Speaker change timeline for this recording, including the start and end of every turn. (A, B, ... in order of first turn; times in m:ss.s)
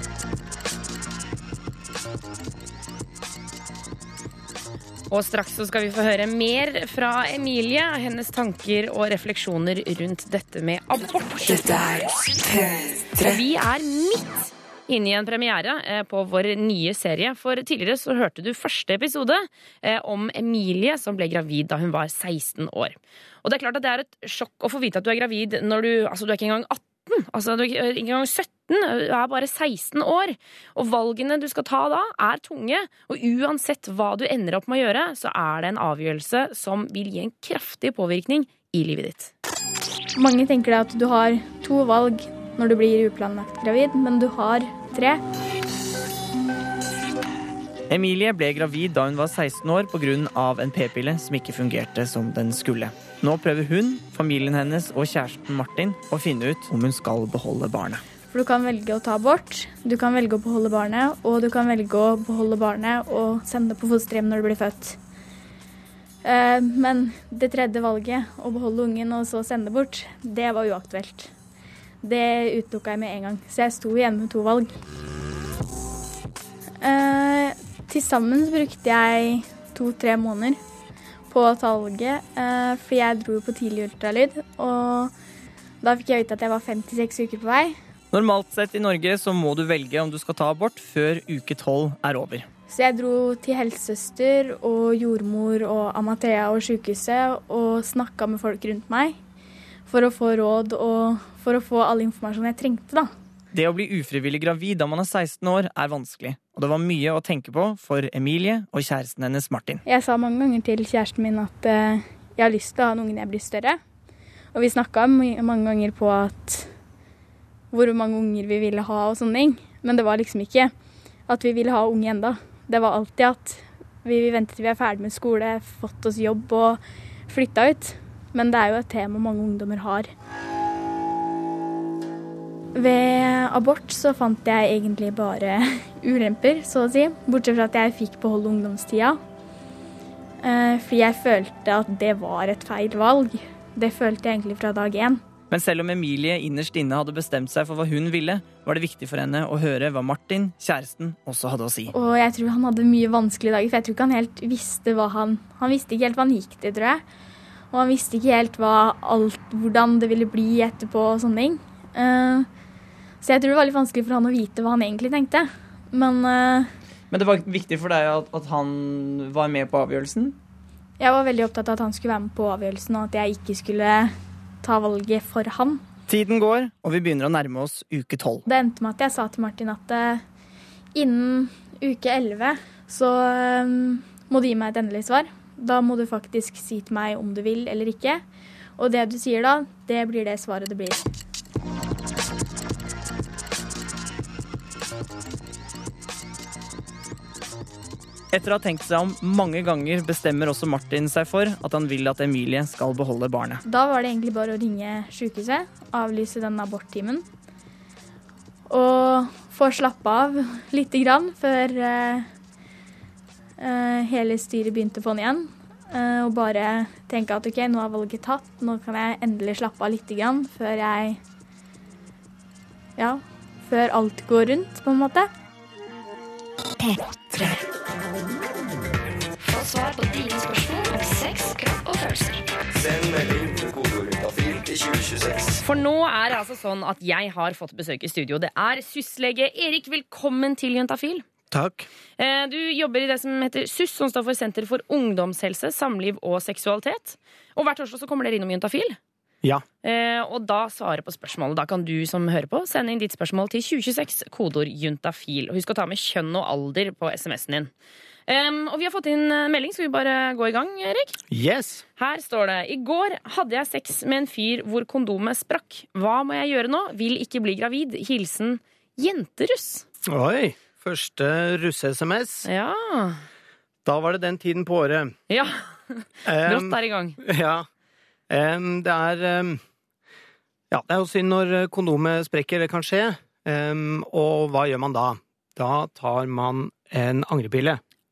0:05.1-0:11.7 A
0:11.4-0:13.4 B
0:13.2-0:39.3 A
0:40.2-0:45.2 C
0:47.9-0:58.0 D
0:58.3-1:05.0 C
1:06.2-1:11.3 C
1:12.0-1:14.7 C
1:16.8-1:20.6 C
1:21.3-1:25.1 C
1:25.8-1:27.8 C
1:28.1-1:32.5 D
1:32.7-1:39.2 C
1:39.9-1:43.1 C
1:43.5-1:49.8 D
1:49.9-1:53.8 C
1:54.5-1:56.7 C
1:57.7-2:00.7 C
2:01.3-2:10.1 C
2:12.7-2:19.2 C
2:20.4-2:25.2 C
2:25.5-2:31.9 D
2:31.9-2:37.0 C
2:37.7-2:42.5 C
2:43.2-2:46.7 C
2:47.1-2:50.4 D
2:51.0-2:55.8 C
2:56.1-2:58.4 D
2:58.4-3:00.2 C
3:00.9-3:08.2 C
3:08.8-3:11.0 C
3:18.3-3:23.6 D
3:23.6-3:27.2 C
3:28.7-3:32.3 C
3:33.6-3:41.2 C
3:43.0-3:45.3 C
3:46.8-3:47.6 B
3:49.4-3:52.4 B
3:52.7-3:55.6 E
3:55.6-4:01.2 A
4:01.5-4:01.9 F
4:02.2-4:09.0 A
4:09.8-4:17.7 A
4:18.3-4:21.2 A
4:21.3-4:21.8 F
4:22.0-4:29.8 A
4:30.0-4:32.5 F
4:32.4-4:33.2 A
4:33.8-4:35.2 F
4:35.3-4:37.2 A
4:36.2-4:37.7 F
4:38.3-4:39.6 F
4:40.7-4:47.8 F